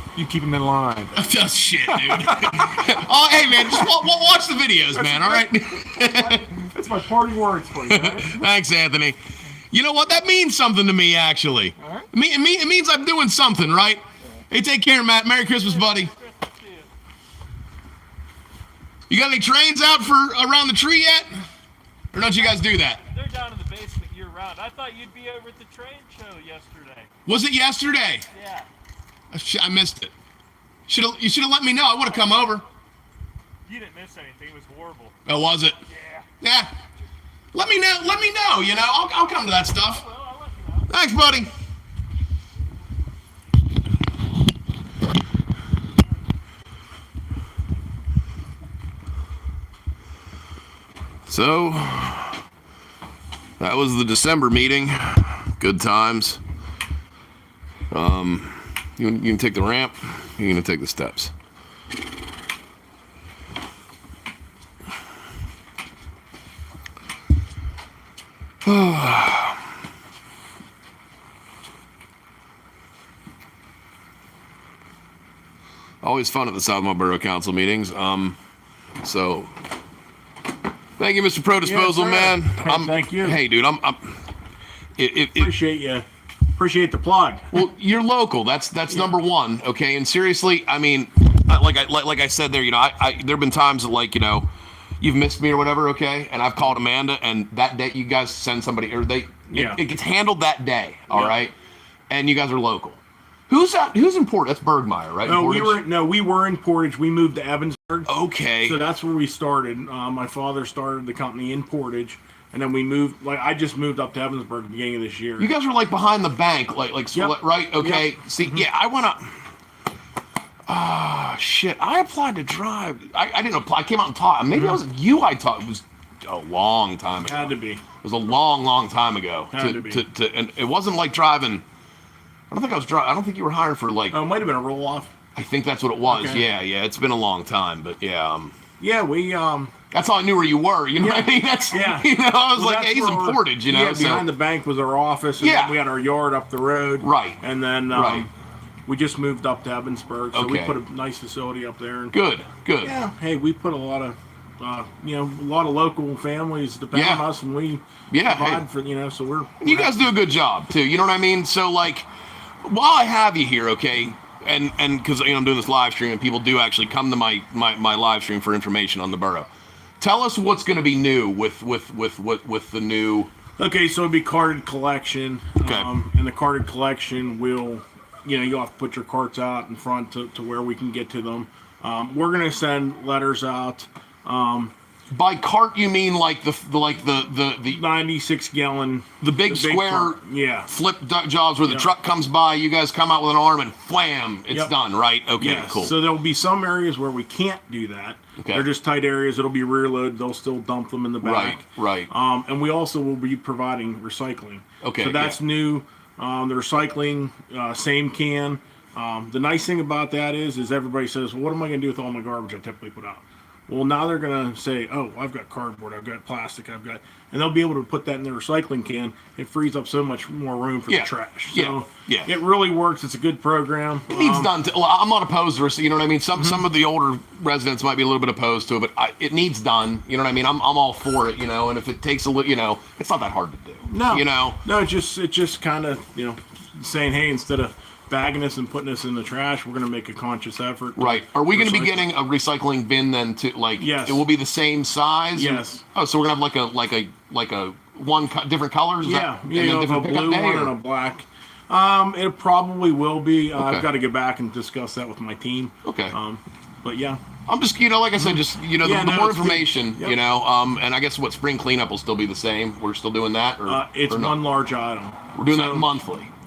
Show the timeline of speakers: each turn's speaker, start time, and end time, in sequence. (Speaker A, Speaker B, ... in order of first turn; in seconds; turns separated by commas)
Speaker A: 0.1-1.1, Speaker B: 1.1-6.6, Speaker A: 2.0-2.6, Speaker A: 4.9-5.5, Speaker A: 6.1-8.4, Speaker B: 7.8-9.2, Speaker B: 9.7-16.1, Speaker C: 15.6-16.9, Speaker B: 19.1-21.3, Speaker B: 22.1-23.0, Speaker C: 22.3-27.1, Speaker B: 27.2-28.2, Speaker C: 28.3-28.7, Speaker B: 29.3-30.1, Speaker B: 30.9-32.6, Speaker C: 33.6-35.1, Speaker B: 35.2-35.8, Speaker C: 35.9-36.2, Speaker B: 36.4-36.7, Speaker B: 37.5-40.1, Speaker C: 39.8-40.9, Speaker B: 40.9-41.5, Speaker B: 51.2-52.4, Speaker B: 53.6-56.4, Speaker B: 57.9-61.3, Speaker B: 68.6-69.6, Speaker B: 76.0-78.4, Speaker B: 79.0-79.5, Speaker B: 81.0-84.0, Speaker A: 81.6-83.4, Speaker B: 85.0-85.5, Speaker A: 85.3-86.0, Speaker A: 86.6-87.6, Speaker B: 87.5-101.5, Speaker A: 99.5-99.8, Speaker A: 101.1-101.4, Speaker B: 102.1-105.8, Speaker A: 105.2-115.5, Speaker B: 108.0-108.8, Speaker B: 115.4-119.2, Speaker A: 117.1-118.7, Speaker B: 120.7-131.6, Speaker A: 124.5-124.8, Speaker A: 127.2-127.8, Speaker A: 129.5-130.0, Speaker B: 132.5-134.2, Speaker A: 134.1-135.1, Speaker B: 135.3-138.5, Speaker A: 136.1-136.4, Speaker A: 138.8-139.7, Speaker B: 139.9-144.3, Speaker A: 140.9-148.3, Speaker B: 145.4-145.8, Speaker B: 147.0-148.3, Speaker A: 148.8-152.1, Speaker B: 150.3-150.8, Speaker B: 152.1-152.9, Speaker A: 152.8-160.1, Speaker B: 156.9-157.2, Speaker B: 158.1-158.6, Speaker B: 159.6-162.1, Speaker B: 162.6-169.5, Speaker B: 170.0-173.3, Speaker A: 173.6-184.7, Speaker B: 175.6-175.9, Speaker B: 185.1-187.8, Speaker A: 187.7-190.7, Speaker B: 189.2-195.9, Speaker A: 191.6-191.9, Speaker A: 195.4-224.5, Speaker B: 198.4-198.6, Speaker B: 201.2-202.1, Speaker B: 204.8-205.4, Speaker B: 220.9-222.3, Speaker B: 224.1-234.6, Speaker A: 233.8-242.1, Speaker B: 240.9-250.7, Speaker A: 243.8-244.2, Speaker A: 245.3-245.8, Speaker A: 249.0-257.2, Speaker B: 253.6-253.8, Speaker B: 255.8-256.1, Speaker B: 257.5-264.4, Speaker A: 258.1-260.2, Speaker A: 263.6-265.9, Speaker B: 265.3-266.3